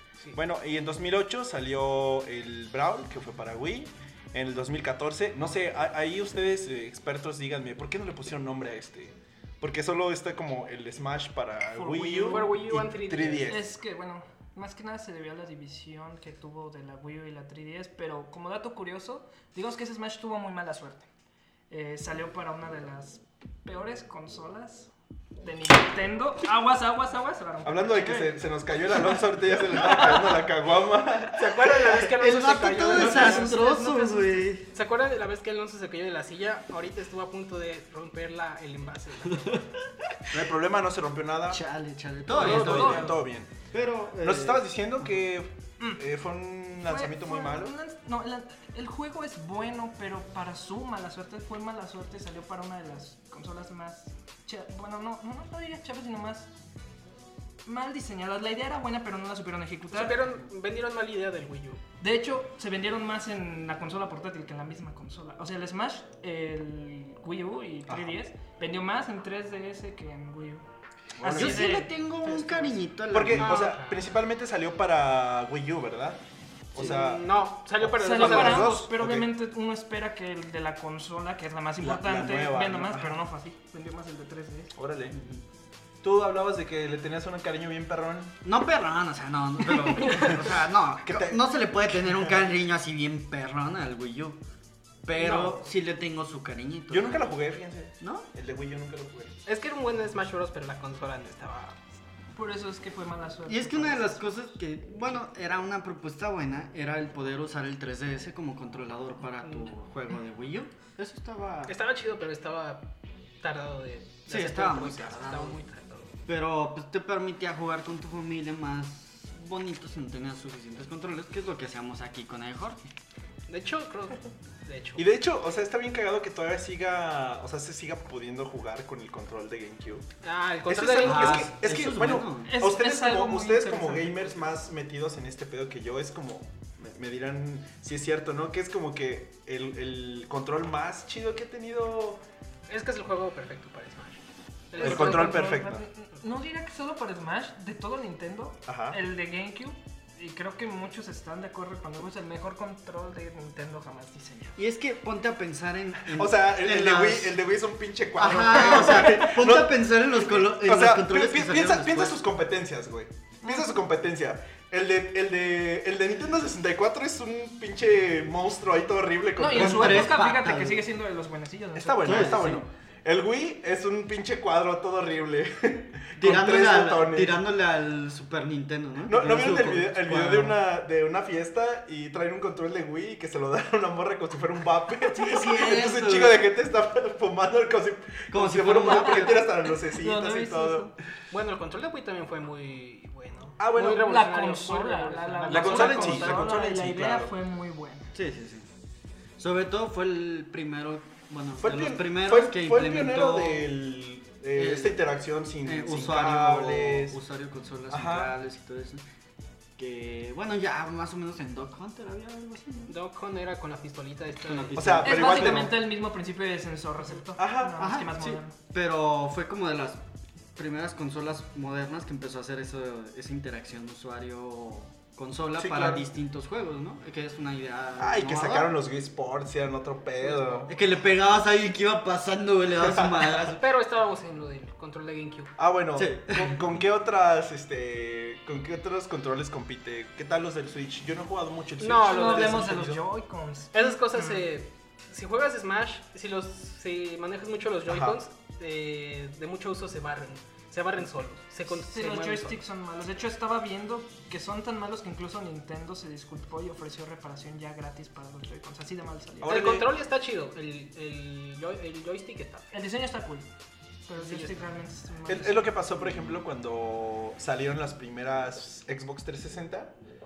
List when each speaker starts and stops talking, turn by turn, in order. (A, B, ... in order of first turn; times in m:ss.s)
0:00.3-0:13.6 A
0:11.7-0:12.6 B
0:12.2-0:13.6 C
0:13.5-0:21.1 B
0:21.7-0:28.4 B
0:27.6-0:31.9 A
0:31.3-0:33.5 C
0:32.0-0:34.7 D
0:32.9-0:34.5 B
0:34.7-0:39.8 C
0:40.3-0:41.6 A
0:41.5-0:43.2 D
0:42.3-0:43.2 B
0:42.3-0:43.6 A
0:42.3-0:43.1 C
0:43.7-0:45.0 D
0:44.2-0:47.7 A
0:46.9-0:56.5 B
0:57.7-1:00.2 B
0:59.9-1:01.8 C
1:02.0-1:10.6 B
1:07.9-1:08.1 A
1:11.2-1:11.7 A
1:11.2-1:12.8 B
1:11.2-1:13.8 D
1:13.1-1:16.2 A
1:13.3-1:14.2 C
1:16.7-1:17.2 A
1:16.8-1:18.8 C
1:17.8-1:19.3 A
1:18.0-1:24.7 B
1:21.8-1:23.2 A
1:24.7-1:25.2 A
1:25.1-1:25.4 D
1:26.0-1:28.4 A
1:28.4-1:34.4 D
1:30.1-1:30.4 A
1:31.0-1:32.4 A
1:35.0-1:37.3 D
1:35.2-1:35.6 C
1:36.9-1:39.4 A
1:38.0-1:38.3 D
1:39.5-1:41.8 C
1:42.3-1:44.3 B
1:43.5-1:51.8 D
1:49.4-1:49.7 C
1:51.7-1:56.1 C
1:54.3-1:55.6 D
1:56.3-2:02.9 D
2:03.5-2:05.0 C
2:05.0-2:10.0 A
2:10.2-2:11.5 C
2:10.7-2:22.2 A
2:11.0-2:12.6 D
2:12.4-2:14.1 B
2:22.7-2:25.5 C
2:24.8-2:34.6 B
2:24.8-2:25.8 A
2:28.7-2:29.0 A
2:34.6-2:37.4 D
2:36.1-2:50.2 A
2:38.2-2:42.2 D
2:49.4-2:52.6 B
2:49.5-2:50.9 D
2:51.8-2:57.4 A
2:52.0-2:52.6 D
2:56.2-3:00.6 D
2:59.1-3:10.9 A
3:05.0-3:06.5 D
3:08.3-3:09.5 D
3:08.9-3:11.0 B
3:11.3-3:16.5 C
3:13.6-3:14.1 A
3:13.8-3:18.1 B
3:15.5-3:17.3 A
3:18.1-3:18.7 D
3:19.4-3:23.7 D
3:21.6-3:27.2 A
3:24.6-3:25.0 D
3:25.6-3:29.0 D
3:27.9-3:28.4 A
3:29.8-3:33.0 D
3:32.9-3:35.0 C
3:34.4-3:35.7 D
3:34.7-3:35.8 A
3:35.0-3:38.6 B
3:37.4-3:37.9 A
3:37.8-3:40.0 D
3:40.6-3:48.7 D
3:45.6-3:46.1 A
3:48.0-3:50.7 A
3:50.2-3:50.8 C
3:50.7-3:53.6 D
3:52.8-3:53.5 A
3:53.6-3:55.5 C
3:55.6-4:03.0 A
3:56.0-3:56.6 D
4:01.8-4:02.6 C
4:02.0-4:04.4 B
4:03.7-4:12.6 C
4:07.9-4:08.2 A
4:11.7-4:19.7 B
4:19.4-4:22.7 C
4:19.4-4:19.9 A
4:22.7-4:23.5 B
4:24.1-4:25.9 B
4:24.1-4:24.8 C
4:25.3-4:30.0 A
4:26.0-4:26.4 D